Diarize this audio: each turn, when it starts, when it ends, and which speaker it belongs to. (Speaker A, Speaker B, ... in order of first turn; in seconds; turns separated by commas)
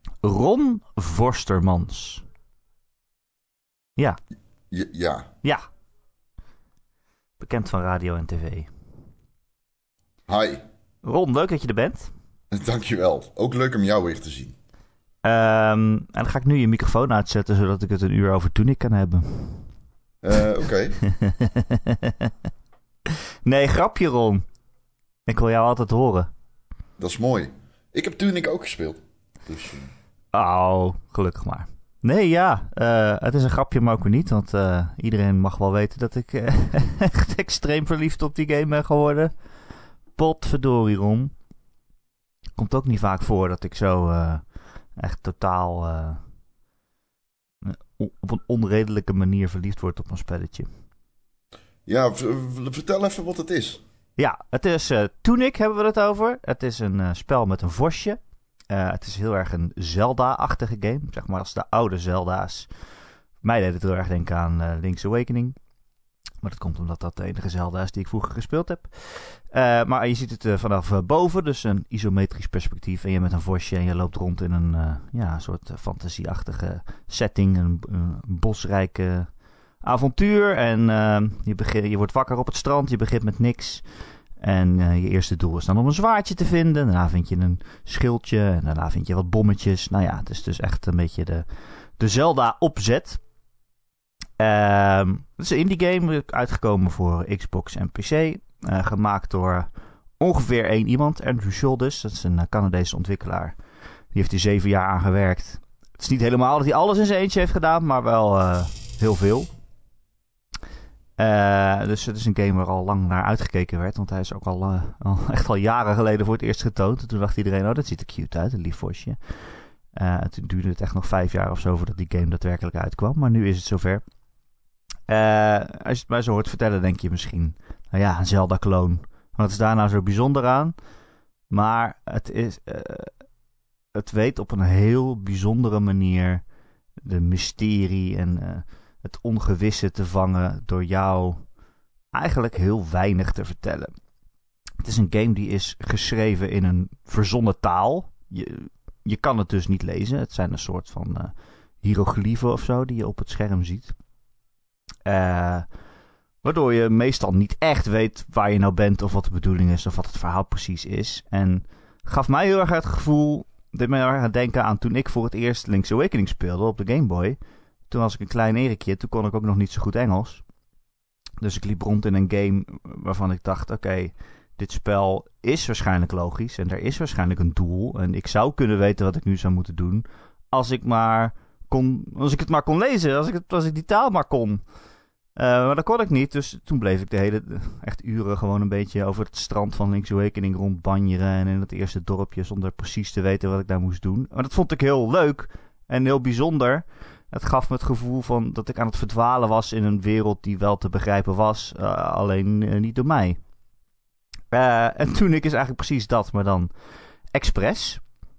Speaker A: 0.2-2.2, Speaker B: 4.7-5.3, Speaker A: 7.4-8.7, Speaker B: 10.3-10.6, Speaker A: 11.0-12.1, Speaker B: 12.5-14.5, Speaker A: 15.2-19.7, Speaker B: 20.2-21.0, Speaker A: 21.0-22.3, Speaker A: 23.4-24.4, Speaker A: 25.3-26.3, Speaker B: 27.0-29.9, Speaker A: 30.3-39.3, Speaker A: 40.1-41.3, Speaker A: 42.5-46.2, Speaker A: 47.6-50.7, Speaker B: 51.9-53.8, Speaker A: 54.2-62.7, Speaker A: 63.4-65.5, Speaker A: 66.4-79.3, Speaker A: 79.8-83.8, Speaker A: 84.4-91.4, Speaker A: 92.0-93.2, Speaker A: 94.4-99.7, Speaker A: 100.2-103.6, Speaker A: 104.1-109.5, Speaker A: 111.2-119.2, Speaker A: 119.9-124.0, Speaker A: 125.1-130.7, Speaker A: 131.5-133.1, Speaker A: 133.9-136.4, Speaker A: 137.0-141.4, Speaker A: 142.1-143.9, Speaker A: 144.8-153.9, Speaker A: 155.1-155.7, Speaker A: 156.4-167.4, Speaker A: 167.9-170.4, Speaker A: 171.4-184.6, Speaker A: 185.3-203.4, Speaker A: 204.5-206.7, Speaker A: 207.3-208.0